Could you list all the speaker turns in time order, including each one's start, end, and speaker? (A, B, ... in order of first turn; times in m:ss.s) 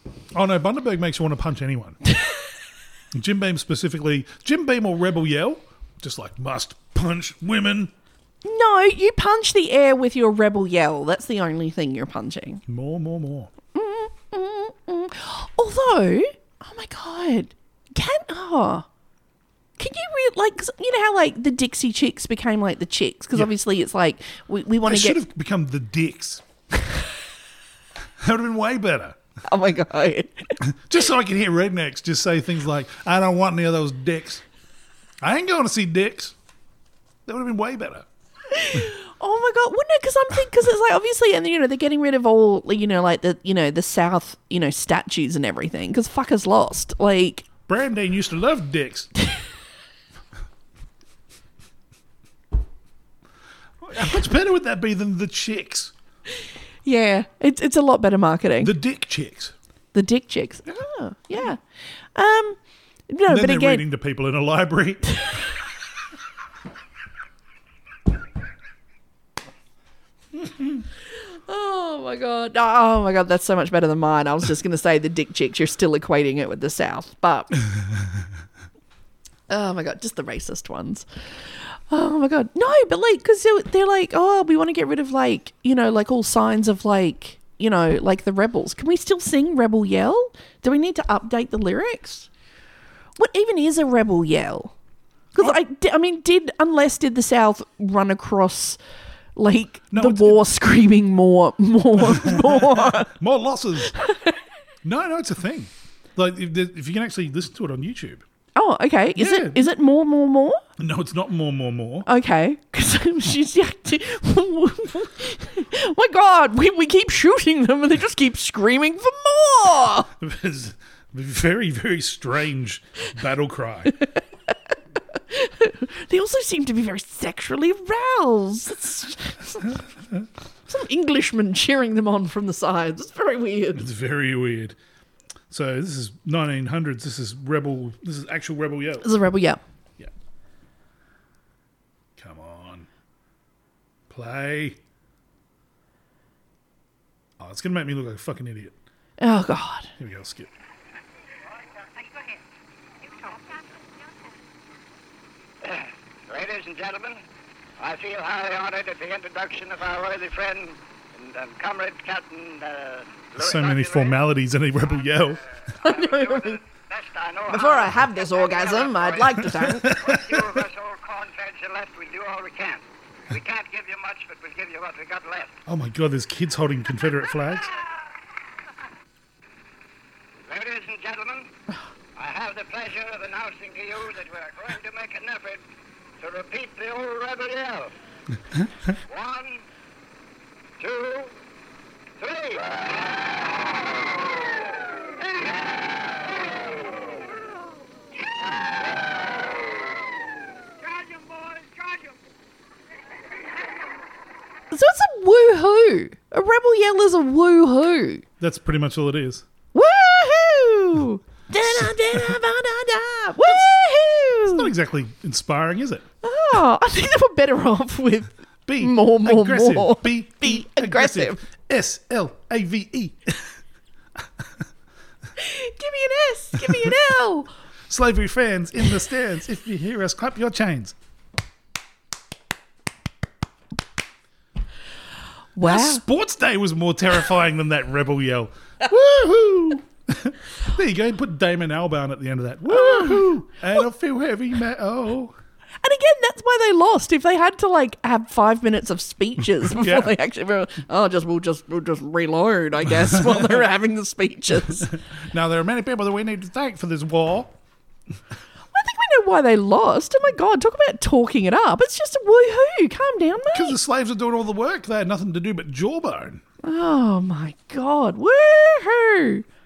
0:00.3-0:02.0 A
0:03.1-0:07.9 A
0:08.4-0:12.6 B
0:12.7-0:13.5 A
0:13.7-0:18.9 B
0:19.8-0:25.2 B
0:24.8-0:26.4 A
0:28.2-0:29.2 A
0:29.4-0:30.6 B
0:30.6-0:34.4 A
0:35.2-0:36.4 A
0:37.3-0:38.1 A
0:38.5-0:47.5 B
0:47.6-0:49.1 A
0:53.8-0:55.9 A
0:56.8-0:58.7 B
0:58.6-0:59.5 A
0:59.9-1:01.6 B
1:02.2-1:02.6 B
1:03.1-1:03.9 B
1:03.3-1:05.2 A
1:11.5-1:17.6 B
1:19.5-1:21.0 B
1:21.9-1:32.3 B
1:33.2-1:34.7 B
1:35.3-1:38.8 B
1:39.4-1:43.1 B
1:39.9-1:40.4 A
1:42.0-1:44.0 A
1:44.8-1:48.2 A
1:48.6-1:50.6 B
1:49.2-1:49.7 A
1:50.8-1:52.1 A
1:52.1-2:00.1 B
2:00.2-2:04.0 A
2:05.3-2:09.8 B
2:10.7-2:13.8 B
2:13.7-2:14.8 A
2:15.5-2:19.1 A
2:19.0-2:19.6 B
2:22.2-2:22.9 A
2:24.1-2:24.8 A
2:27.4-2:28.8 A
2:29.2-2:29.9 B
2:30.0-2:30.5 A
2:35.6-2:37.2 C
2:37.8-2:44.2 C
2:43.4-2:45.4 A
2:45.8-2:55.6 C
2:45.8-2:46.6 B
2:47.5-2:49.9 B
2:49.5-2:50.6 A
2:55.7-2:57.7 A
3:00.5-3:01.5 C
3:02.2-3:05.6 C
3:06.2-3:07.9 C
3:09.0-3:09.6 C
3:10.8-3:11.3 C
3:12.2-3:13.1 C
3:15.3-3:15.6 C
3:20.8-3:22.2 C
3:24.7-3:28.2 B
3:28.4-3:29.4 A
3:29.7-3:34.7 B
3:34.4-3:36.0 A
3:36.2-3:41.4 B
3:38.7-3:43.6 A
3:45.4-3:47.5 B
3:46.6-3:47.0 A
3:47.9-3:51.0 A
3:55.6-3:56.0 B
3:55.6-4:05.4 A
4:02.7-4:03.2 B
4:05.8-4:14.9 B
4:09.8-4:10.1 A
4:13.1-4:13.5 A
4:14.7-4:17.5 A
4:18.7-4:23.8 B
4:23.5-4:26.4 A
4:26.6-4:29.4 B